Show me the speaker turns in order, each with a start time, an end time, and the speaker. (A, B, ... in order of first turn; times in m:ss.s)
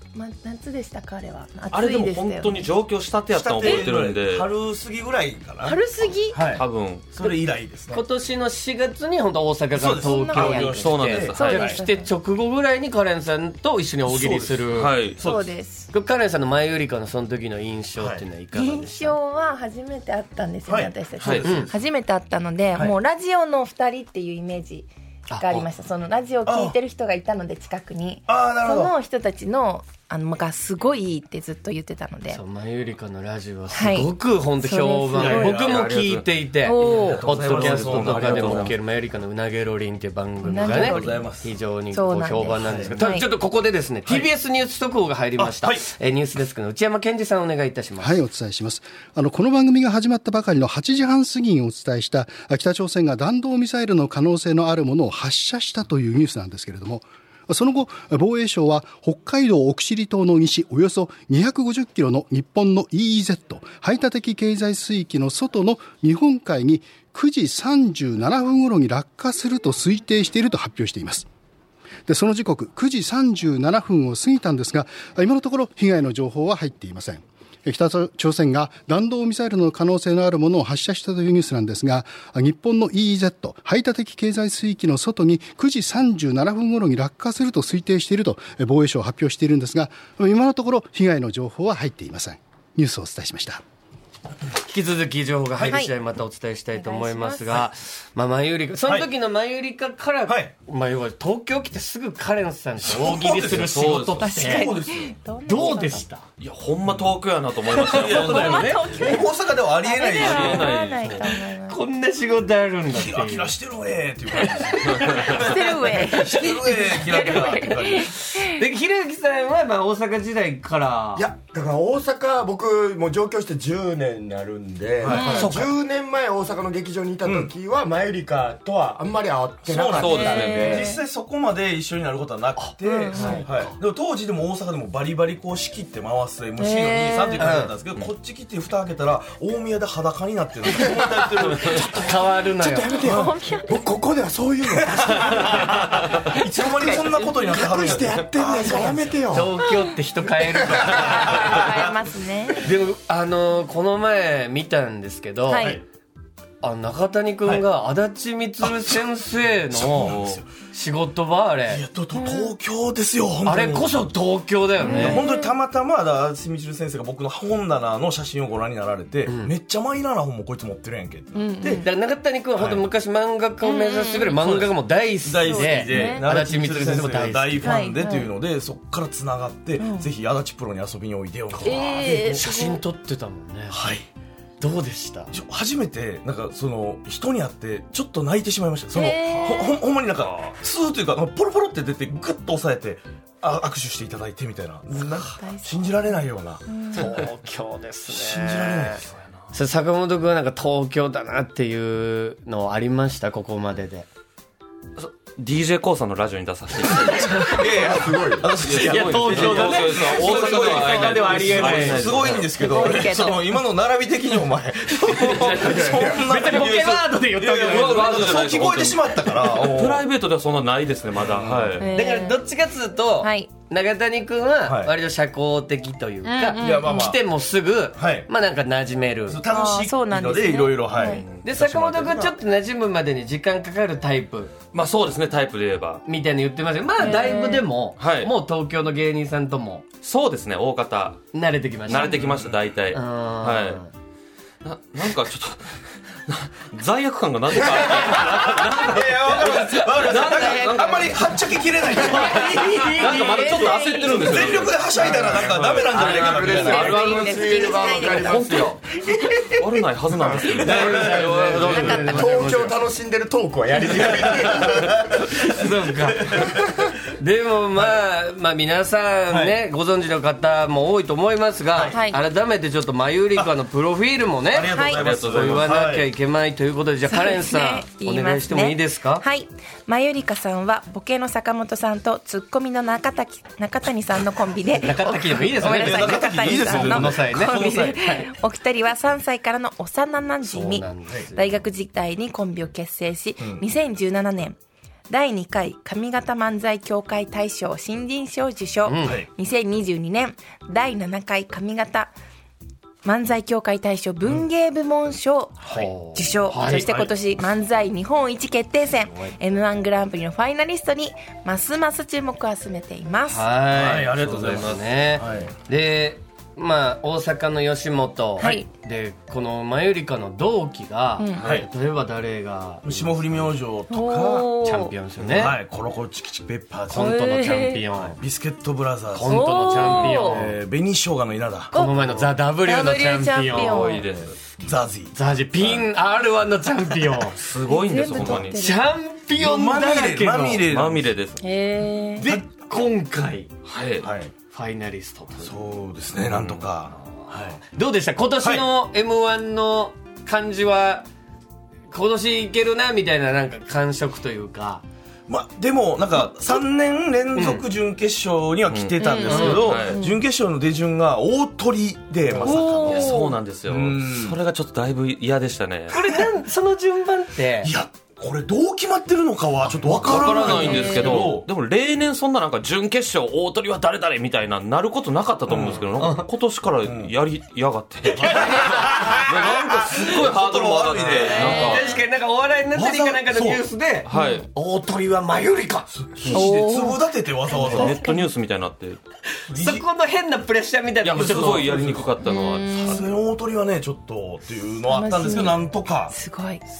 0:00.1-0:02.7 A
0:01.7-0:04.5 B
0:03.3-0:05.8 C
0:05.6-0:06.4 A
0:06.3-0:08.0 C
0:06.5-0:07.3 B
0:07.9-0:14.9 D
0:09.7-0:11.8 C
0:09.8-0:12.1 A
0:10.8-0:11.7 B
0:14.0-0:14.7 C
0:14.7-0:15.2 B
0:15.2-0:15.5 C
0:15.2-0:15.9 A
0:15.9-0:19.2 D
0:18.0-0:18.2 C
0:18.5-0:32.4 A
0:20.7-0:21.8 C
0:21.2-0:21.6 B
0:21.4-0:21.7 D
0:25.3-0:25.7 D
0:26.4-0:26.8 C
0:28.3-0:28.9 C
0:32.3-0:48.2 D
0:33.7-0:35.7 A
0:35.1-0:35.9 C
0:35.6-0:36.3 B
0:36.6-0:37.2 A
0:36.9-0:38.7 C
0:37.3-0:38.7 B
0:40.4-0:41.3 A
0:40.6-0:41.5 C
0:41.9-0:43.3 A
0:42.6-0:42.9 C
0:45.4-0:45.8 C
0:48.0-1:11.2 E
1:12.1-1:33.6 E
1:34.6-1:44.8 D
1:35.6-1:35.9 A
1:36.7-1:37.6 A
1:42.8-1:45.8 C
1:43.6-1:44.3 B
1:44.2-1:46.1 A
1:45.4-1:46.2 D
1:46.4-1:48.8 B
1:46.8-1:47.1 C
1:47.7-1:49.0 D
1:47.8-1:50.8 C
1:48.1-1:51.8 A
1:50.1-1:51.3 B
1:51.3-1:53.5 D
1:52.9-1:58.1 C
1:54.3-1:57.4 D
1:55.1-1:58.6 A
1:58.4-2:01.3 D
2:01.2-2:10.9 F
2:05.0-2:05.7 C
2:05.1-2:05.5 A
2:05.2-2:05.7 D
2:07.2-2:07.5 C
2:09.7-2:22.0 C
2:09.9-2:10.8 B
2:10.1-2:11.0 A
2:12.6-2:13.7 D
2:12.8-2:13.4 A
2:16.6-2:17.6 A
2:17.4-2:17.7 D
2:21.4-2:21.9 B
2:21.6-2:22.9 D
2:22.6-2:29.5 F
2:22.9-2:23.8 A
2:25.2-2:26.4 B
2:26.4-2:29.1 C
2:26.8-2:27.0 A
2:27.7-2:28.9 B
2:29.3-2:31.6 D
2:30.5-2:30.8 F
2:30.9-2:32.7 A
2:31.1-2:31.9 C
2:32.6-2:35.8 D
2:35.5-2:35.8 A
2:36.6-2:40.2 D
2:38.6-2:40.5 C
2:39.9-2:40.4 B
2:40.7-2:41.8 D
2:41.7-2:44.1 C
2:42.1-2:42.5 A
2:43.4-2:45.2 D
2:44.8-2:45.6 A
2:44.9-2:51.8 C
2:49.3-2:49.5 D
2:51.3-2:51.8 A
2:51.8-2:57.9 D
2:52.6-2:52.8 C
2:53.6-2:54.4 A
2:54.4-3:02.4 C
2:55.4-2:56.2 A
2:57.6-2:58.3 A
2:59.8-3:00.1 A
3:01.5-3:03.8 D
3:01.6-3:02.8 A
3:03.7-3:04.1 C
3:04.6-3:05.3 D
3:05.3-3:16.6 C
3:08.9-3:09.8 A
3:10.2-3:10.5 B
3:14.9-3:17.2 A
3:16.9-3:19.0 D
3:18.1-3:19.1 C
3:19.5-3:24.1 D
3:25.0-3:27.6 B
3:27.3-3:40.0 C
3:27.8-3:28.5 F
3:28.6-3:32.7 B
3:28.8-3:32.3 D
3:30.2-3:31.2 A
3:32.4-3:33.6 A
3:35.2-3:38.6 D
3:35.4-3:36.3 F
3:37.6-3:41.9 B
3:41.2-3:41.8 C
3:41.8-3:42.4 A
3:41.9-3:49.4 D
3:43.2-3:43.5 A
3:44.6-3:44.9 C
3:46.2-3:47.1 A
3:46.6-3:47.2 C
3:47.9-3:48.3 C
3:49.3-3:52.4 C
3:49.4-3:51.2 A
3:51.0-3:51.5 B
3:51.4-3:54.5 D
3:54.7-3:56.0 B
3:56.0-3:59.8 D
3:57.0-3:57.6 A
3:58.0-3:58.3 B
4:00.0-4:01.2 B
4:01.3-4:02.2 D
4:01.9-4:03.8 B
4:02.0-4:02.6 C
4:02.9-4:03.9 D
4:04.6-4:14.9 B
4:08.0-4:13.1 C
4:12.0-4:14.4 A
4:12.1-4:14.1 D
4:14.1-4:16.9 C
4:15.0-4:15.2 A
4:15.0-4:20.9 F
4:15.2-4:15.5 D
4:16.3-4:18.7 A
4:16.6-4:18.8 B
4:19.5-4:22.1 B
4:20.6-4:22.8 D
4:20.7-4:21.0 A
4:20.8-4:22.0 C
4:21.7-4:22.4 A
4:22.0-4:25.0 F
4:24.0-4:24.6 C
4:25.2-4:26.5 D
4:26.0-4:26.6 C
4:27.2-4:39.2 D
4:29.3-4:29.6 C
4:31.7-4:32.0 C
4:31.9-4:32.2 A
4:34.5-4:36.1 C
4:34.7-4:35.0 A
4:34.9-4:35.6 B
4:37.1-4:54.6 A
4:44.7-4:48.3 D
4:45.6-4:48.0 C
4:50.4-4:51.6 D
4:53.4-4:53.6 C
4:55.1-5:02.1 A
4:58.8-4:59.2 D
4:59.0-4:59.3 C
5:03.0-5:13.5 A
5:05.6-5:06.9 D
5:06.6-5:07.1 C
5:13.2-5:23.1 D
5:13.7-5:15.5 C
5:18.4-5:18.7 A
5:21.2-5:21.4 A
5:21.4-5:21.6 C
5:22.8-5:24.5 C
5:23.9-5:24.9 A
5:24.6-5:25.6 D
5:25.2-5:27.1 C
5:26.9-5:28.2 D
5:26.9-5:27.8 A
5:28.0-5:31.7 C
5:29.1-5:30.6 D
5:29.2-5:30.4 A
5:29.9-5:30.3 B
5:31.7-5:34.0 A
5:31.8-5:33.9 D
5:33.5-5:35.9 C
5:33.6-5:34.3 B
5:35.1-5:37.4 D
5:37.3-5:38.6 B
5:37.6-5:38.8 A
5:38.2-5:38.4 C
5:38.5-5:40.6 D
5:39.4-5:41.1 C
5:40.7-5:41.4 B
5:41.4-5:42.3 A
5:42.2-5:42.4 C
5:42.2-5:43.5 D
5:43.6-5:44.1 B
5:44.0-5:44.3 C
5:44.5-5:45.5 D
5:45.4-5:47.6 C
5:46.2-5:46.7 B
5:47.6-5:51.1 D
5:48.4-5:48.7 C
5:51.9-5:54.8 D
5:55.3-6:04.4 C
5:57.3-5:57.7 D
5:58.6-6:00.0 B
5:59.0-6:00.2 A
5:59.2-5:59.8 D
6:02.4-6:03.2 D
6:02.4-6:06.0 B
6:02.4-6:03.4 A
6:05.9-6:07.7 D
6:07.6-6:11.5 C
6:09.9-6:21.9 B
6:10.1-6:11.2 A
6:15.5-6:15.9 C
6:15.7-6:16.2 D
6:16.8-6:17.1 C
6:18.1-6:21.7 C
6:18.2-6:19.4 D
6:21.0-6:25.9 D
6:21.1-6:22.0 A
6:22.7-6:23.6 C
6:24.0-6:24.4 B
6:24.1-6:24.4 A
6:25.9-6:28.0 C
6:26.3-6:28.3 A
6:27.6-6:29.0 B
6:29.5-6:31.8 D
6:29.5-6:29.8 C
6:31.0-6:33.0 B
6:31.1-6:32.1 C
6:32.2-6:33.1 A
6:32.8-6:36.1 C
6:34.8-6:36.6 A